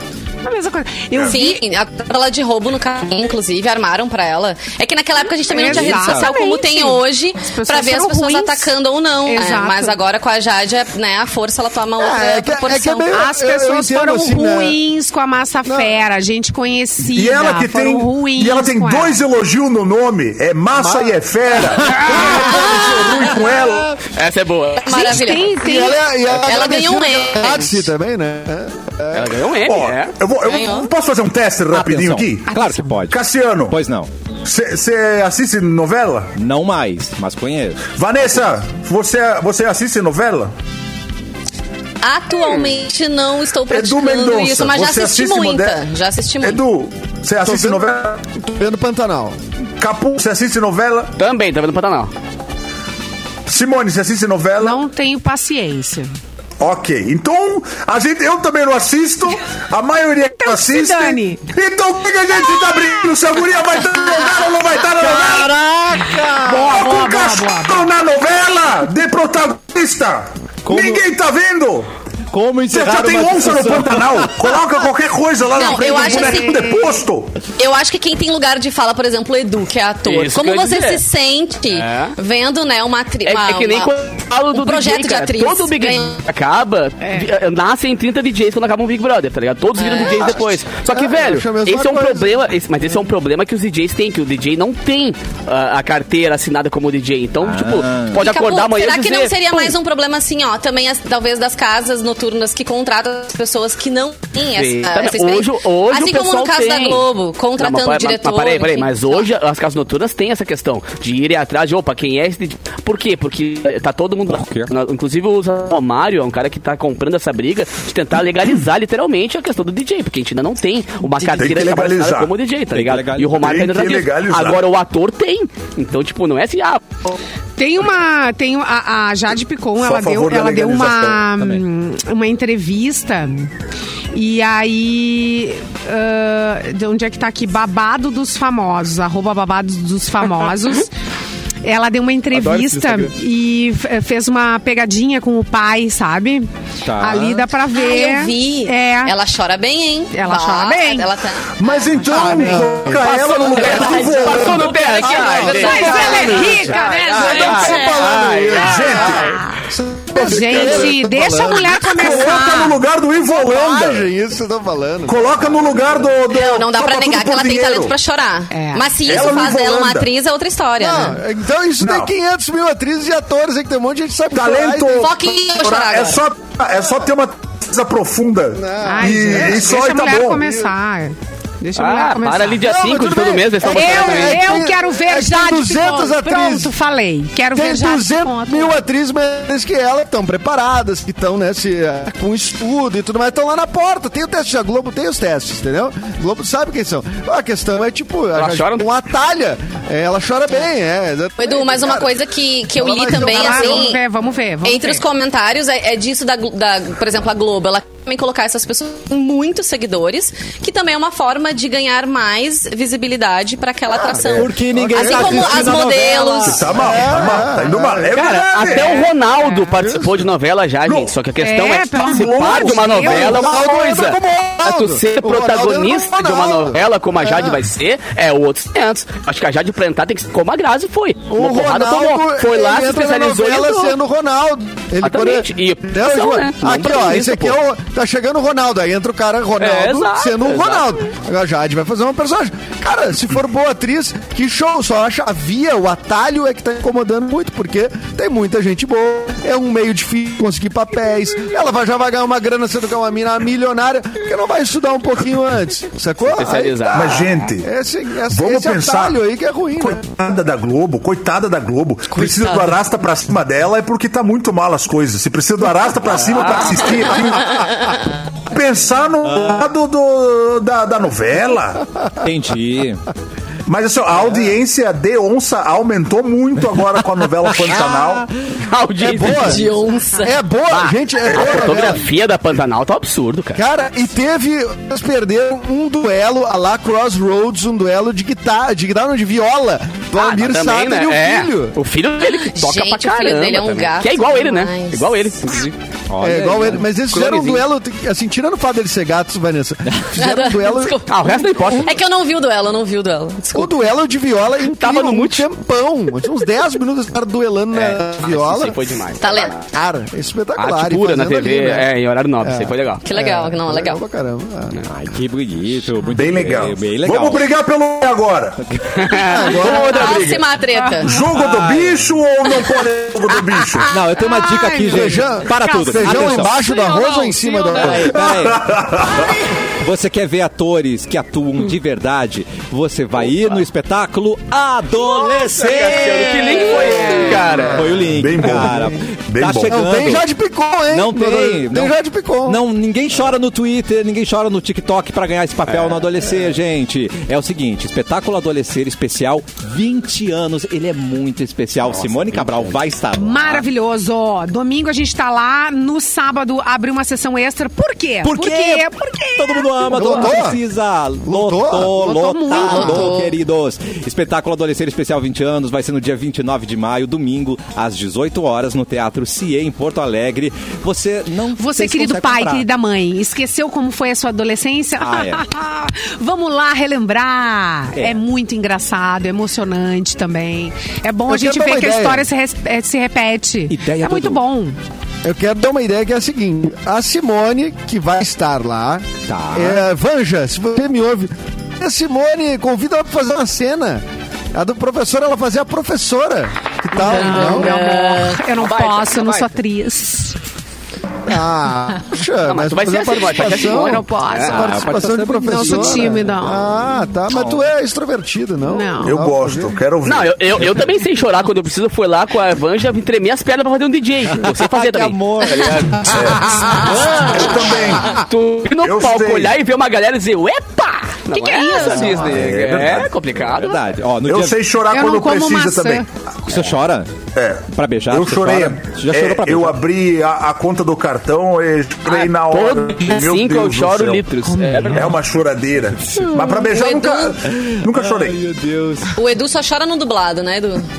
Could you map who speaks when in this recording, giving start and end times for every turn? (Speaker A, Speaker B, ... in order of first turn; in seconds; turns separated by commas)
Speaker A: 0.4-1.6, Speaker B: 1.2-13.2, Speaker A: 5.4-9.9, Speaker C: 5.6-6.3, Speaker D: 12.0-14.8, Speaker A: 13.1-19.2, Speaker D: 15.7-16.0, Speaker E: 17.0-24.0, Speaker D: 20.8-23.1, Speaker F: 24.1-25.1, Speaker A: 24.8-26.1, Speaker B: 24.9-27.9, Speaker D: 25.6-29.4, Speaker F: 29.1-30.1, Speaker E: 29.6-32.5, Speaker B: 30.4-30.9, Speaker C: 31.7-34.1, Speaker A: 32.6-32.9, Speaker E: 33.1-33.8, Speaker E: 34.4-36.3, Speaker C: 36.4-37.9, Speaker E: 37.9-40.5, Speaker B: 42.0-46.6, Speaker E: 43.7-45.8, Speaker E: 46.4-48.2, Speaker D: 47.4-49.4, Speaker E: 49.8-51.1, Speaker F: 51.2-52.1, Speaker E: 53.5-54.8, Speaker A: 54.6-56.1, Speaker E: 56.6-65.5, Speaker A: 60.3-61.4, Speaker C: 65.0-66.7, Speaker A: 66.4-67.9, Speaker E: 66.6-71.9, Speaker C: 70.6-71.0, Speaker C: 72.3-74.3, Speaker E: 72.7-77.3, Speaker B: 75.5-76.8, Speaker A: 75.8-76.9, Speaker B: 77.6-83.9, Speaker F: 80.0-81.0, Speaker F: 81.7-82.1, Speaker F: 83.2-99.7, Speaker B: 84.5-86.2, Speaker A: 87.0-87.3, Speaker B: 89.8-90.3, Speaker D: 90.0-92.4, Speaker C: 97.4-98.2, Speaker B: 98.2-109.3, Speaker F: 104.5-107.0, Speaker F: 107.6-127.2, Speaker C: 114.3-114.7, Speaker E: 121.2-122.3, Speaker C: 122.7-123.4, Speaker E: 123.3-124.6, Speaker A: 127.6-133.5, Speaker E: 129.8-131.3, Speaker C: 131.4-131.6, Speaker A: 134.1-140.9, Speaker A: 141.6-146.5, Speaker F: 142.3-143.1, Speaker C: 146.8-147.5, Speaker A: 147.0-149.2, Speaker B: 147.7-151.8, Speaker A: 150.1-151.1, Speaker E: 151.6-154.9, Speaker A: 152.1-152.7, Speaker D: 152.2-162.4, Speaker F: 152.9-159.4, Speaker B: 154.8-156.7, Speaker A: 155.5-158.0, Speaker E: 155.9-156.5, Speaker B: 157.3-157.8, Speaker E: 158.5-159.4, Speaker A: 160.1-162.8, Speaker E: 160.2-160.9, Speaker E: 161.8-164.1, Speaker D: 163.3-166.1, Speaker E: 165.1-167.9, Speaker B: 166.3-171.2, Speaker A: 168.5-168.9, Speaker E: 169.0-170.1, Speaker D: 170.8-175.1, Speaker E: 171.8-172.1, Speaker E: 174.3-180.7, Speaker B: 174.9-176.2, Speaker D: 178.6-179.8, Speaker A: 178.8-182.6, Speaker F: 181.8-184.4, Speaker D: 182.6-186.7, Speaker A: 183.7-188.8, Speaker D: 187.5-202.1, Speaker F: 198.3-198.9, Speaker B: 201.4-204.0, Speaker D: 202.8-203.9, Speaker A: 203.1-205.0, Speaker B: 204.6-216.7, Speaker C: 214.2-216.9, Speaker D: 214.7-215.9, Speaker E: 216.4-219.1, Speaker D: 216.6-218.1, Speaker F: 218.1-234.0, Speaker A: 219.3-219.7, Speaker D: 219.8-220.2, Speaker E: 220.8-221.1, Speaker A: 221.4-223.5, Speaker E: 221.9-223.4, Speaker D: 223.1-227.6, Speaker D: 231.3-260.2, Speaker F: 235.0-237.6, Speaker F: 239.6-240.9, Speaker F: 256.2-257.3, Speaker E: 256.9-257.7, Speaker E: 258.3-259.2, Speaker E: 259.8-271.8, Speaker F: 266.2-266.9, Speaker C: 272.2-273.0, Speaker E: 273.7-278.3, Speaker C: 277.5-278.3, Speaker F: 278.6-279.8, Speaker D: 279.0-282.0, Speaker B: 279.3-280.4, Speaker F: 280.7-283.6, Speaker E: 281.3-281.8, Speaker D: 283.6-291.8, Speaker F: 290.1-295.8, Speaker B: 292.2-295.6, Speaker C: 296.1-296.9, Speaker D: 296.2-301.9, Speaker F: 297.1-297.6, Speaker B: 300.2-303.7, Speaker F: 301.1-301.9, Speaker D: 303.5-311.9, Speaker F: 304.7-305.5, Speaker F: 307.7-309.6, Speaker B: 309.2-309.5, Speaker F: 310.6-313.0, Speaker D: 312.4-314.8, Speaker B: 313.0-314.0, Speaker C: 314.9-317.4, Speaker E: 316.1-318.6, Speaker C: 318.6-319.4, Speaker F: 318.9-320.5, Speaker D: 319.1-320.4, Speaker B: 319.7-321.2, Speaker A: 320.7-321.1, Speaker E: 321.0-323.9, Speaker C: 321.2-322.2, Speaker C: 323.9-326.6, Speaker A: 324.1-328.0, Speaker D: 324.9-328.3, Speaker C: 327.7-329.3, Speaker E: 328.1-329.3, Speaker C: 329.8-340.3, Speaker F: 335.3-337.9, Speaker D: 337.1-338.0, Speaker E: 338.1-338.8, Speaker D: 338.6-338.9, Speaker E: 339.3-339.7, Speaker D: 339.7-342.6, Speaker C: 340.9-353.6, Speaker A: 353.1-360.2, Speaker C: 358.2-372.6, Speaker D: 359.9-360.6, Speaker D: 361.2-362.0, Speaker A: 361.9-363.2, Speaker B: 362.6-363.3, Speaker A: 371.6-384.8, Speaker C: 375.0-375.4, Speaker D: 381.3-382.2, Speaker C: 383.7-384.4, Speaker D: 385.2-397.7, Speaker C: 389.3-389.9, Speaker A: 396.9-400.4, Speaker B: 397.0-398.4, Speaker C: 398.6-399.5, Speaker D: 401.3-409.8, Speaker F: 402.4-404.6, Speaker A: 403.5-404.8, Speaker C: 404.4-406.4, Speaker A: 405.4-406.7, Speaker C: 407.3-407.7, Speaker A: 408.6-409.2, Speaker E: 409.0-410.7, Speaker F: 410.0-423.8, Speaker C: 414.3-417.4, Speaker E: 416.1-419.6, Speaker A: 421.3-422.1, Speaker E: 422.1-423.1, Speaker C: 423.5-424.6, Speaker E: 424.2-426.1, Speaker A: 424.9-426.1, Speaker C: 426.4-427.1, Speaker E: 427.3-434.3, Speaker C: 427.7-429.8, Speaker F: 432.1-435.1, Speaker A: 434.5-435.1, Speaker E: 434.8-438.4, Speaker C: 436.0-436.7, Speaker B: 436.6-437.3, Speaker C: 437.5-439.2, Speaker B: 439.1-440.9